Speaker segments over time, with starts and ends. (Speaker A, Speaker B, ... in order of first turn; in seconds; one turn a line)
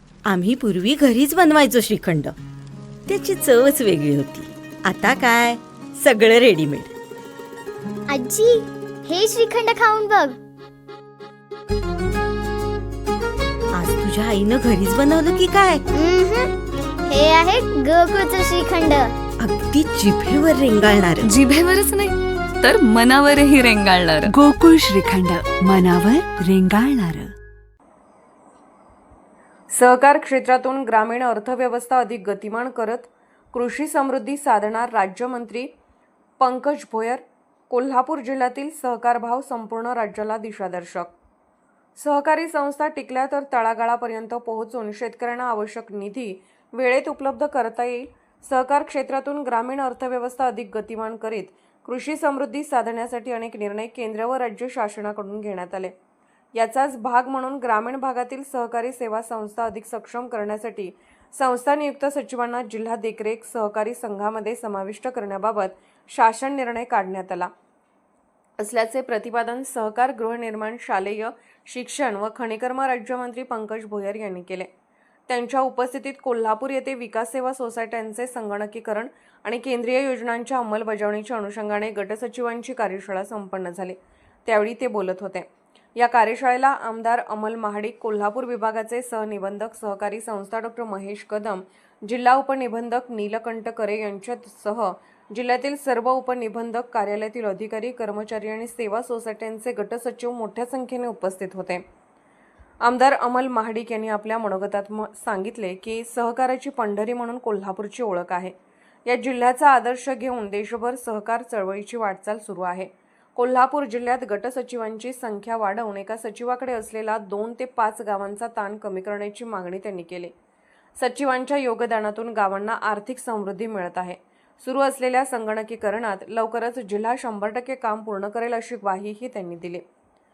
Speaker A: 0.2-2.4
Speaker A: 3.0-6.9
Speaker B: 8.1-10.4
Speaker A: 13.7-15.8
Speaker B: 15.9-16.6
Speaker B: 17.1-19.1
Speaker A: 19.4-21.3
Speaker C: 21.2-22.1
Speaker C: 22.6-24.3
Speaker D: 24.3-27.3
Speaker E: 29.7-35.7
Speaker E: 36.4-41.1
Speaker E: 42.0-55.9
Speaker E: 56.5-67.5
Speaker E: 68.6-74.7
Speaker E: 75.3-101.8
Speaker E: 102.8-108.5
Speaker E: 109.0-120.3
Speaker E: 121.0-129.8